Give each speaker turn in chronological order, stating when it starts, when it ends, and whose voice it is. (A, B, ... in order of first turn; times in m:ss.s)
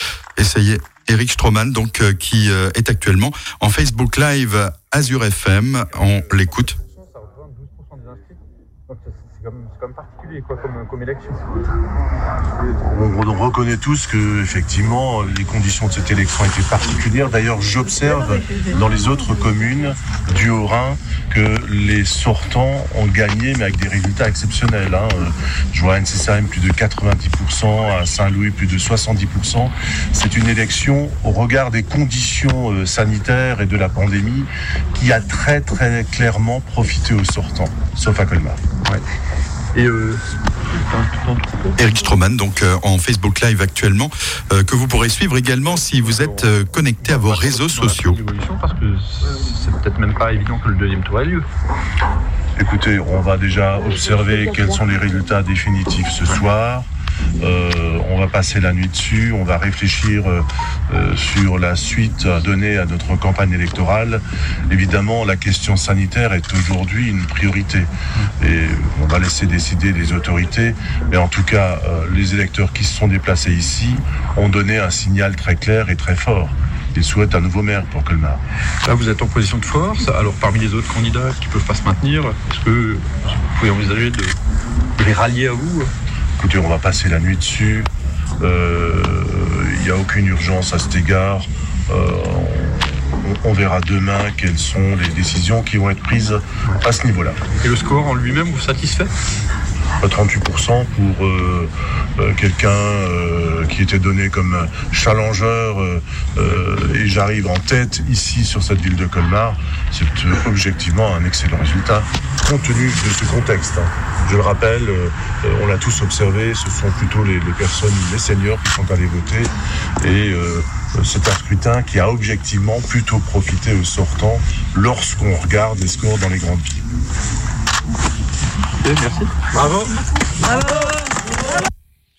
0:00.4-0:06.8 A
0:06.6-0:11.6 B
0:12.8-0:38.6 C
0:39.7-0:41.8 B
0:41.8-0:48.2 A
0:46.0-0:51.5 B
0:52.6-0:56.9 C
0:57.4-1:18.4 C
1:18.8-1:24.4 B
1:25.0-1:25.9 B
1:26.4-1:27.9 C
1:28.4-1:37.4 C
1:37.6-1:39.1 B
1:40.0-1:59.5 C
2:00.0-2:06.8 C
2:08.8-2:09.9 B